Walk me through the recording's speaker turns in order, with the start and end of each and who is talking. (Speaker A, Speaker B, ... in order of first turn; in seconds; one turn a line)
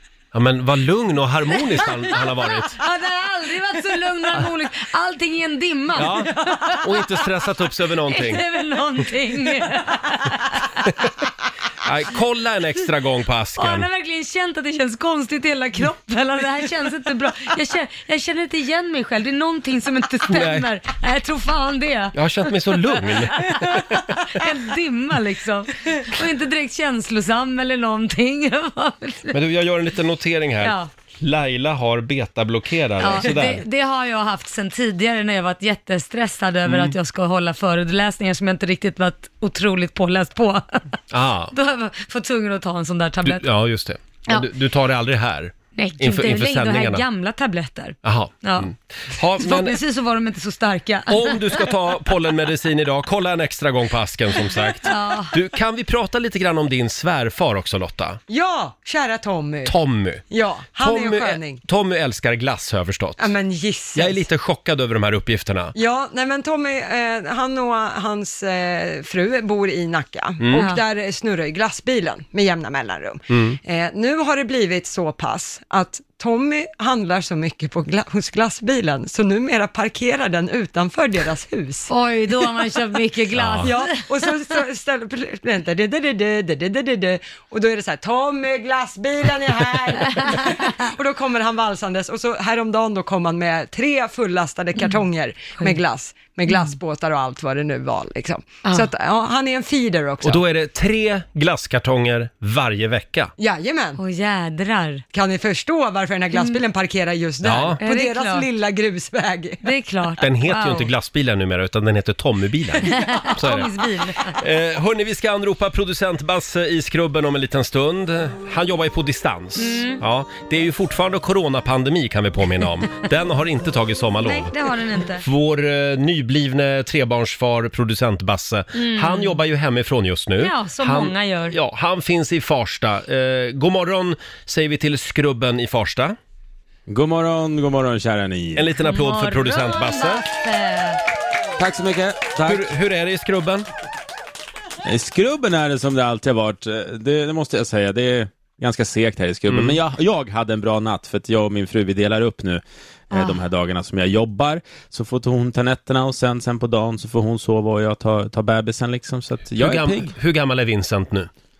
Speaker A: 0.3-2.8
Speaker B: 2.7-7.0
Speaker A: 6.0-8.5
Speaker B: 8.1-10.9
Speaker A: 11.8-13.9
Speaker B: 13.6-29.4
Speaker A: 20.3-20.7
Speaker A: 22.1-24.5
Speaker A: 29.3-33.6
Speaker B: 30.6-30.9
Speaker B: 33.0-40.8
Speaker A: 36.6-37.0
Speaker A: 41.1-41.5
Speaker B: 41.5-43.5
Speaker A: 43.2-47.1
Speaker B: 45.8-48.7
Speaker A: 48.0-49.8
Speaker B: 49.4-51.7
Speaker A: 51.1-58.2
Speaker B: 54.9-55.4
Speaker C: 58.3-59.8
Speaker A: 59.7-60.2
Speaker C: 60.3-61.6
Speaker A: 60.8-63.3
Speaker C: 63.2-64.2
Speaker A: 64.0-65.7
Speaker C: 65.8-81.9
Speaker A: 70.4-70.7
Speaker B: 70.5-70.8
Speaker A: 73.3-73.6
Speaker B: 81.9-84.0
Speaker A: 83.3-83.7
Speaker C: 83.6-100.4
Speaker B: 90.1-90.5
Speaker A: 100.2-103.3
Speaker C: 103.4-104.0
Speaker B: 104.0-105.0
Speaker C: 105.1-109.6
Speaker B: 106.3-106.6
Speaker A: 107.4-107.8
Speaker B: 107.8-108.5
Speaker B: 109.6-110.9
Speaker A: 110.2-113.7
Speaker B: 112.8-114.4
Speaker A: 114.3-124.5
Speaker B: 119.6-120.0
Speaker B: 124.2-125.2
Speaker A: 125.2-136.2
Speaker B: 128.7-129.4
Speaker B: 130.4-131.6
Speaker D: 136.9-138.7
Speaker A: 138.6-140.2
Speaker B: 138.8-141.0
Speaker D: 141.6-142.7
Speaker A: 142.4-143.7
Speaker D: 144.8-160.1
Speaker A: 149.5-149.8
Speaker B: 153.1-153.4
Speaker A: 159.6-161.3